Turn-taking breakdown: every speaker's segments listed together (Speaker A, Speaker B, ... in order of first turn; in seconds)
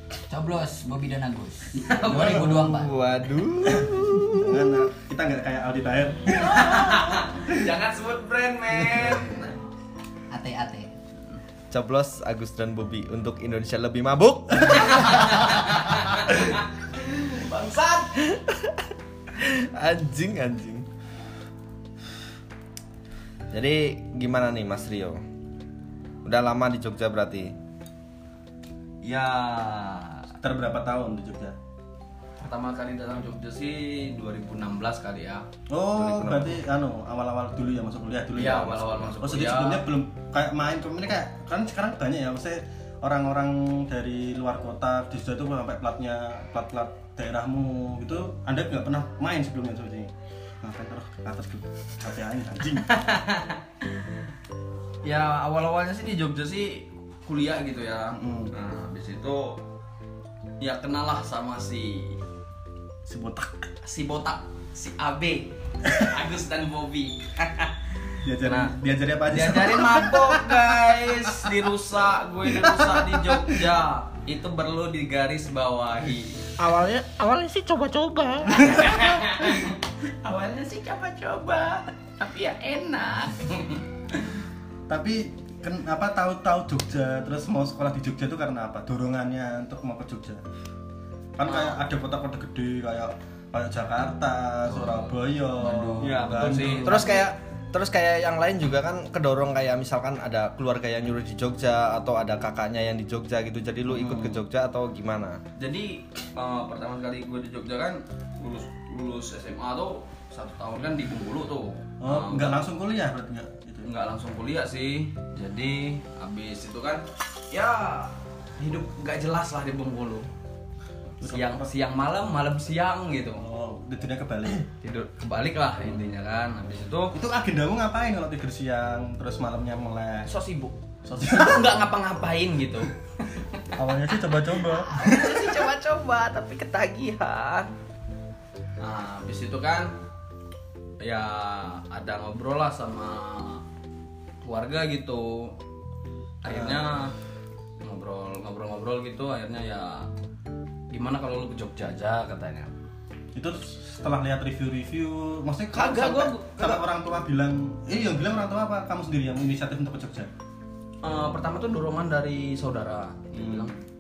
Speaker A: 0.3-3.0, 10.3-10.9, 94.7-96.8
Speaker B: 1.7-2.5, 6.3-9.6, 14.9-18.2, 29.0-30.3, 32.4-35.5, 38.3-39.9, 52.9-53.6, 55.0-59.6, 60.6-62.2, 63.8-68.8, 69.3-76.4, 78.5-83.8, 91.4-91.8, 96.0-97.3, 105.6-112.7, 113.8-120.3, 121.2-123.4, 124.8-127.1, 130.2-132.9, 134.9-137.7, 138.8-139.9, 141.0-143.6, 144.4-145.6, 146.4-147.1, 147.8-150.1, 150.9-152.7, 155.7-156.8, 161.0-163.8
Speaker C: 2.0-4.9, 11.7-15.4, 18.2-20.9, 23.5-25.2, 26.2-27.6, 35.9-36.6, 96.8-105.4
Speaker D: 3.8-7.7, 30.4-31.6, 35.7-53.0, 58.1-58.5, 63.1-63.7, 68.2-70.3, 72.7-73.6, 84.9-90.4, 91.4-97.1, 103.9-104.4, 112.0-113.9, 121.2-121.7, 123.4-124.7, 127.1-130.3, 131.1-131.8, 133.8-135.4, 146.5-146.8, 153.3-160.3, 163.3-163.7
Speaker E: 76.6-79.0